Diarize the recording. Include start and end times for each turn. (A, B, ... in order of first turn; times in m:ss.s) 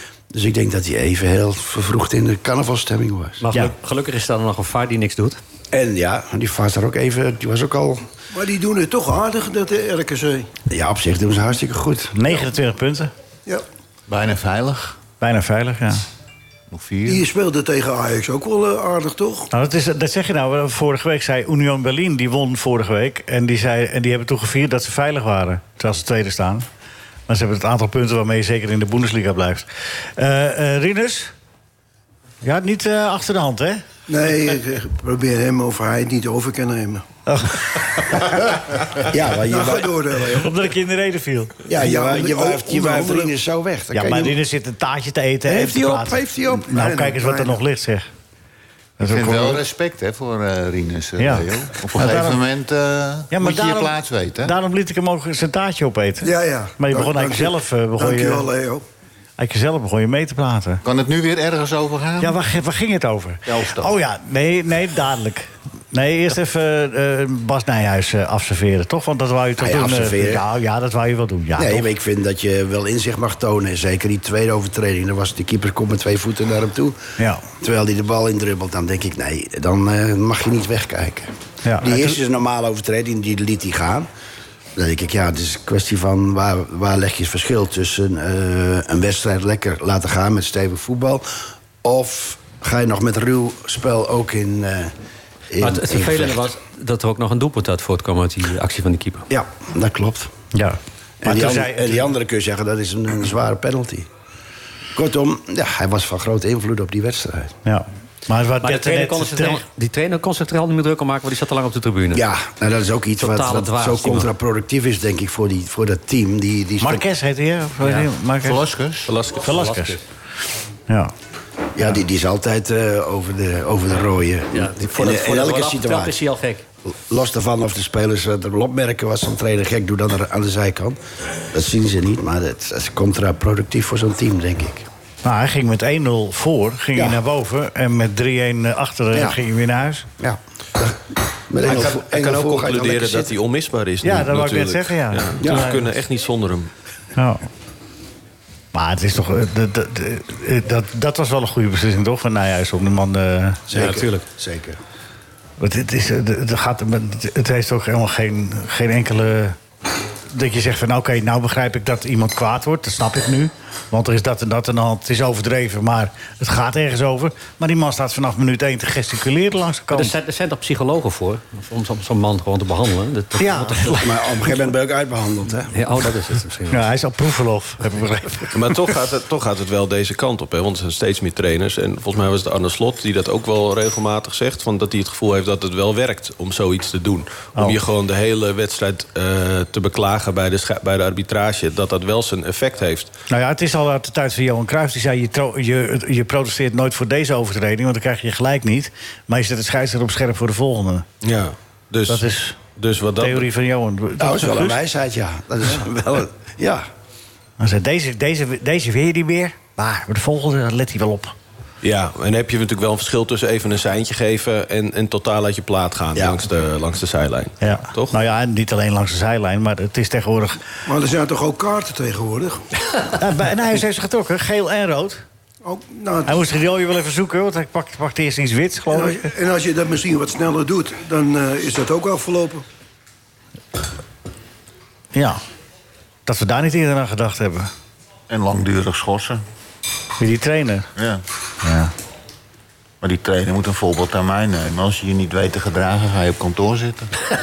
0:00.3-0:03.4 A
0:03.4-0:05.4 B
0:05.7-0:08.0 A
0:08.3-0:10.5 C
0:10.7-0:12.2 A
0:12.1-0:13.1 D
0:14.1-0:15.0 E
0:15.2-0:16.0 D
0:16.7-0:17.2 E
0:17.1-0:19.5 C
0:19.5-0:26.6 D
0:27.3-0:31.3 D
0:32.4-0:33.8 D
0:34.1-0:37.0 C
0:37.3-0:37.6 D
0:39.1-0:39.9 A
0:39.5-0:40.6 C
0:40.4-0:41.5 D
0:41.7-0:44.4 A
0:41.8-0:43.3 C
0:43.9-0:48.0 D
0:45.5-0:46.7 A
0:46.7-0:47.6 C
0:49.0-0:49.6 D
0:49.1-0:54.6 E
0:51.2-0:52.4 D
0:53.3-0:58.5 D
0:56.2-0:58.8 C
0:59.4-1:00.8 D
1:00.8-1:02.4 E
1:02.2-1:11.9 D
1:03.4-1:03.9 E
1:09.6-1:10.4 A
1:11.6-1:17.0 A
1:17.2-1:17.4 D
1:17.6-1:24.1 A
1:21.6-1:22.2 D
1:24.8-1:34.9 A
1:35.5-1:36.4 A
1:35.6-1:39.2 B
1:39.3-1:40.3 A
1:40.5-1:42.1 D
1:41.2-1:44.1 A
1:44.9-1:47.5 A
1:47.6-1:49.6 D
1:48.6-1:52.2 B
1:52.1-1:57.0 A
1:53.2-1:54.3 B
1:56.8-1:58.6 D
1:58.4-1:59.1 E
1:59.0-1:59.8 F
1:59.4-2:00.0 D
1:59.4-1:59.9 B
2:01.7-2:06.2 A
2:04.5-2:06.6 B
2:06.9-2:11.0 A
2:11.5-2:14.9 A
2:15.2-2:20.1 D
2:20.2-2:23.3 A
2:21.6-2:26.7 F
2:24.0-2:25.9 D
2:25.4-2:25.7 A
2:27.2-2:27.4 D
2:28.7-2:33.6 D
2:33.7-2:34.8 A
2:33.7-2:34.2 B
2:35.6-2:39.6 D
2:40.3-2:50.1 D
2:49.9-2:54.0 B
2:53.4-2:54.0 D
2:53.9-2:55.7 A
2:55.7-2:56.8 B
2:56.7-2:58.6 D
2:58.5-3:13.1 F
3:13.3-3:21.0 D
3:21.2-3:22.2 F
3:22.1-3:22.6 D
3:22.8-3:23.5 F
3:23.2-3:24.8 D
3:24.2-3:26.9 A
3:27.6-3:31.3 D
3:31.8-3:38.2 F
3:36.2-3:36.4 A
3:37.6-3:40.6 D
3:40.9-3:42.6 C
3:43.1-3:45.2 D
3:45.6-3:46.4 C
3:46.2-3:49.3 D
3:48.9-3:52.6 C
3:55.1-3:55.4 D
3:56.2-3:57.7 D
3:58.3-3:59.4 E
4:00.2-4:00.9 D
4:01.0-4:01.2 E
4:01.6-4:01.9 D
4:03.0-4:07.2 E